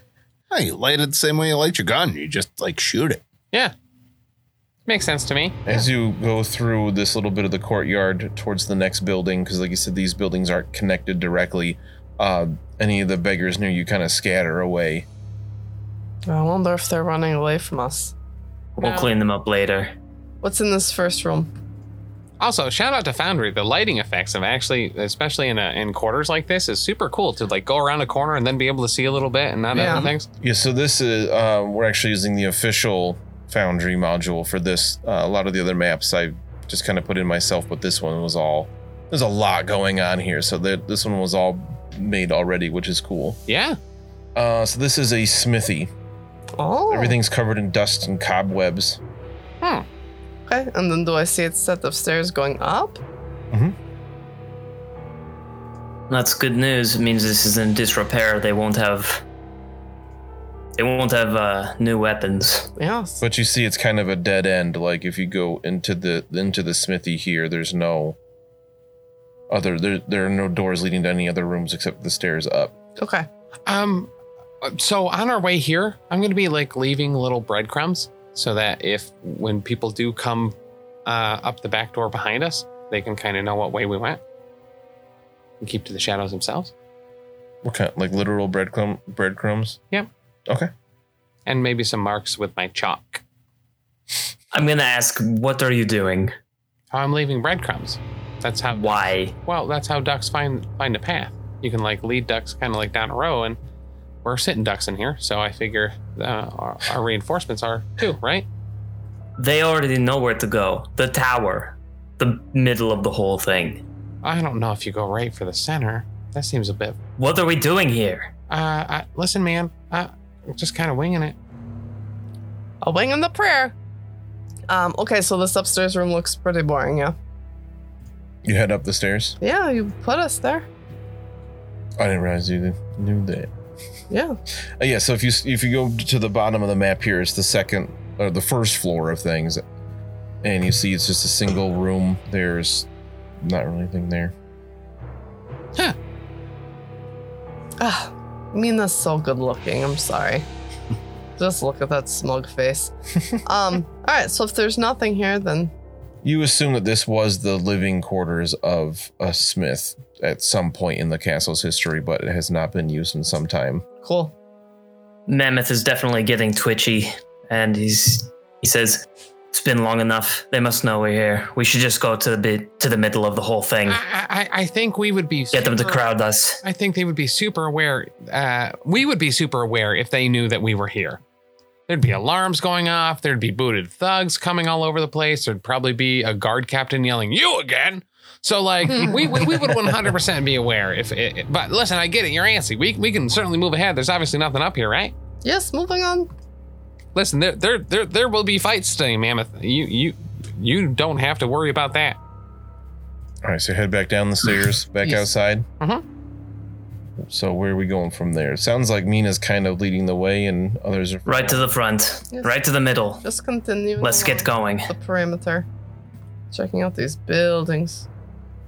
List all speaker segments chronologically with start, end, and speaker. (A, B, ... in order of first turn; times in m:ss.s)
0:00.5-0:03.2 A
0:04.9-0:05.6 B
0:05.6-0:15.1 C
0:16.3-0:18.1 D
0:18.8-0:19.9 E
0:18.8-0:19.1 B
0:20.4-0:21.5 D
0:22.4-0:30.3 B
0:29.7-0:30.1 D
0:29.8-0:43.4 C
0:43.5-0:43.8 B
0:44.4-0:45.9 C
0:46.6-0:47.2 D
0:46.9-0:49.0 C
0:50.5-0:53.0 D
0:53.5-0:53.8 C
0:56.1-0:59.2 E
1:00.8-1:02.7 E
1:02.8-1:03.2 D
1:03.2-1:08.2 C
1:09.5-1:12.7 C
1:13.0-1:13.3 D
1:13.7-1:14.1 B
1:14.6-1:20.6 B
1:21.1-1:24.2 B
1:25.6-1:26.7 B
1:27.6-1:29.8 C
1:31.5-1:33.2 B
1:34.5-1:36.3 E
1:36.9-1:43.6 B
1:38.7-1:39.3 E
1:44.2-1:48.5 B
1:49.4-1:53.8 E
1:54.2-1:57.0 B
1:57.2-1:58.3 E
1:58.5-2:01.4 B
2:02.8-2:03.8 D
2:04.7-2:07.2 D
2:08.4-2:09.4 C
2:09.4-2:10.7 D
2:12.0-2:13.5 C
2:14.1-2:14.4 D
2:14.8-2:19.6 C
2:20.4-2:22.9 C
2:23.4-2:24.3 C
2:27.8-2:30.5 D
2:31.4-2:35.7 D
2:36.2-2:43.8 C
2:44.0-2:44.3 D
2:45.3-2:54.0 E
2:53.9-2:56.0 B
2:55.5-2:56.6 E
2:56.6-3:01.2 B
3:01.9-3:15.1 B
3:08.9-3:09.3 D
3:15.4-3:16.3 D
3:17.2-3:22.2 B
3:23.4-3:25.7 C
3:27.2-3:31.7 C
3:31.3-3:33.2 E
3:33.2-3:35.7 D
3:34.0-3:34.9 E
3:36.5-3:38.1 D